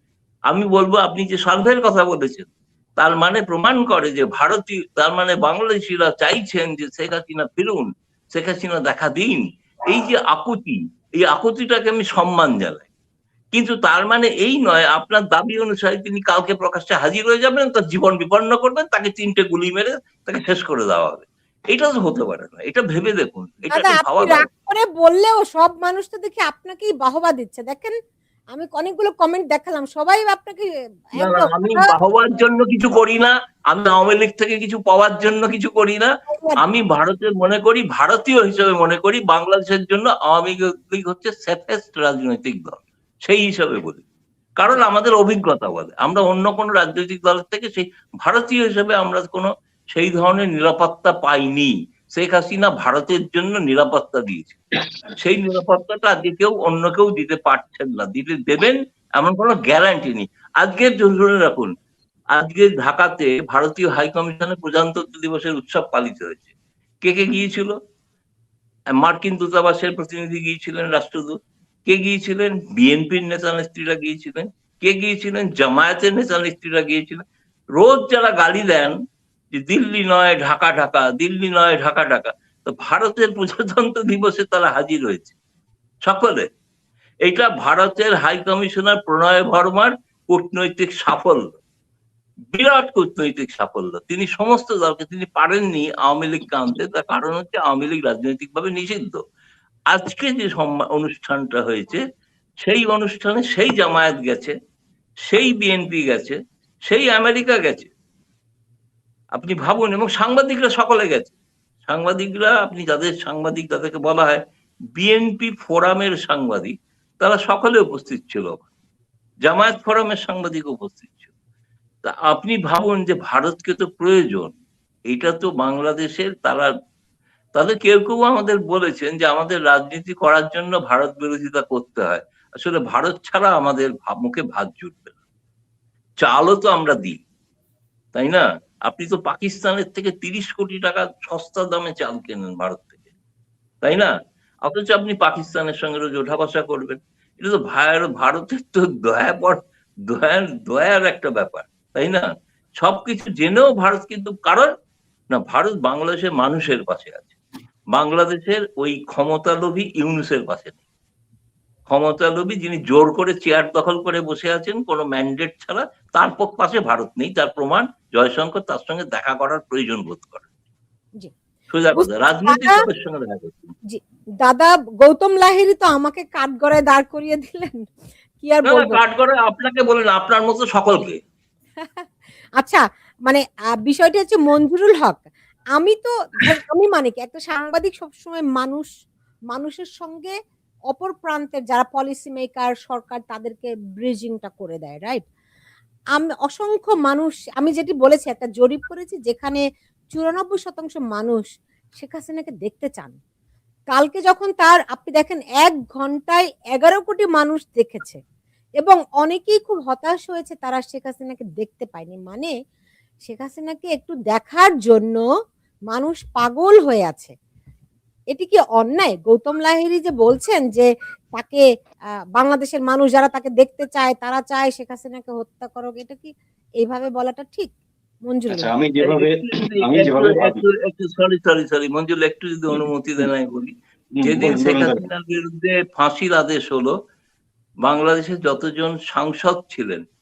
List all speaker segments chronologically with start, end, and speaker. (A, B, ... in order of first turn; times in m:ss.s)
0:00.5-0:12.9 A
0:13.5-0:24.5 A
0:23.7-0:27.9 B
0:28.5-0:31.9 B
0:31.2-0:44.0 A
0:36.3-0:36.6 B
0:44.6-1:01.7 A
1:02.3-1:06.5 A
1:07.0-1:07.7 A
1:09.0-1:17.2 A
1:17.8-1:19.0 A
1:19.5-1:25.3 A
1:26.0-1:26.5 A
1:27.2-1:31.6 A
1:32.5-1:39.2 A
1:39.9-1:42.0 A
1:42.6-1:44.5 A
1:45.3-1:46.4 A
1:46.9-1:47.9 A
1:49.3-1:51.3 A
1:51.9-1:54.4 A
1:55.0-1:58.7 A
1:59.4-2:01.2 A
2:02.0-2:04.6 A
2:05.1-2:06.7 A
2:07.6-2:15.1 A
2:16.2-2:17.2 A
2:18.2-2:22.9 A
2:23.8-2:24.1 A
2:24.6-2:34.7 A
2:35.3-2:37.4 A
2:37.9-2:40.8 A
2:41.9-2:50.4 A
2:51.7-2:53.7 A
2:52.0-2:52.8 B
2:53.9-2:57.8 B
2:58.4-2:59.0 B
2:58.6-3:01.2 A
3:02.6-3:08.9 B
3:09.5-3:10.3 B
3:10.9-3:15.2 B
3:16.2-3:19.6 B
3:20.1-3:23.2 B
3:23.9-3:28.2 B
3:28.8-3:32.5 B
3:33.2-3:35.2 B
3:35.9-3:37.3 B
3:38.3-3:41.6 B
3:42.4-3:47.7 B
3:48.3-3:48.7 B
3:48.5-3:50.6 C
3:49.0-3:56.9 A
3:52.7-3:53.3 C
3:54.1-3:55.0 C
3:57.8-4:00.0 A